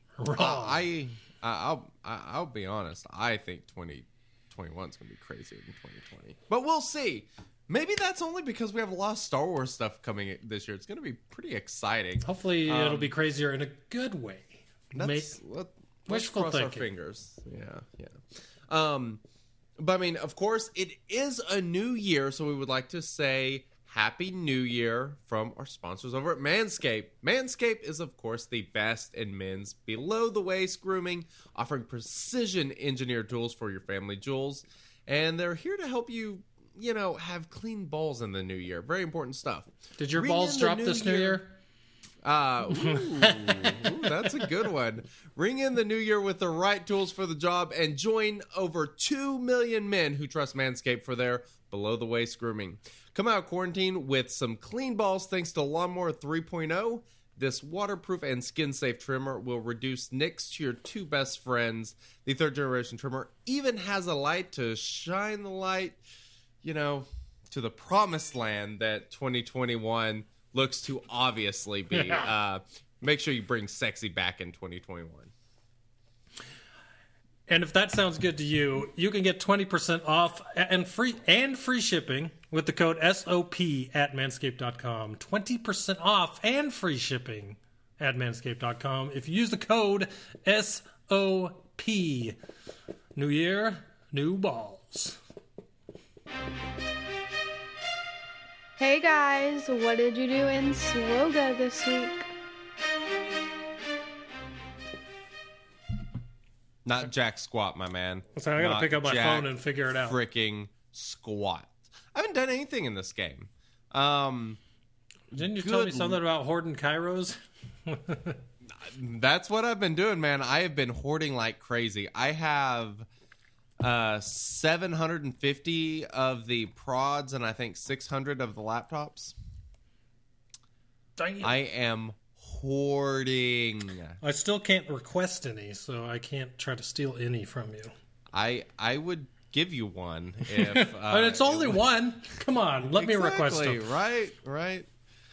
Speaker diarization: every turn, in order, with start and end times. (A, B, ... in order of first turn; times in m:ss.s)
0:00.2-0:00.8 A
0:00.4-0:13.1 B
0:12.2-0:15.4 A
0:14.9-0:19.2 B
0:16.1-0:16.9 A
0:19.8-0:41.4 B
0:40.0-0:41.5 A
0:42.2-1:06.0 B
0:42.8-0:44.5 A
1:06.6-1:15.3 B
1:11.9-1:12.3 A
1:17.5-1:32.4 A
1:33.1-1:35.2 A
1:38.8-1:42.3 C
1:46.8-1:54.6 B
1:48.3-1:50.2 A
1:55.3-1:58.4 A
1:55.3-1:56.2 B
1:58.6-2:03.1 B
2:03.8-2:09.3 B
2:11.2-2:11.5 A
2:11.4-2:14.2 B
2:14.2-2:17.9 A
2:18.3-2:21.8 B
2:20.5-2:23.8 A
2:22.9-2:24.9 B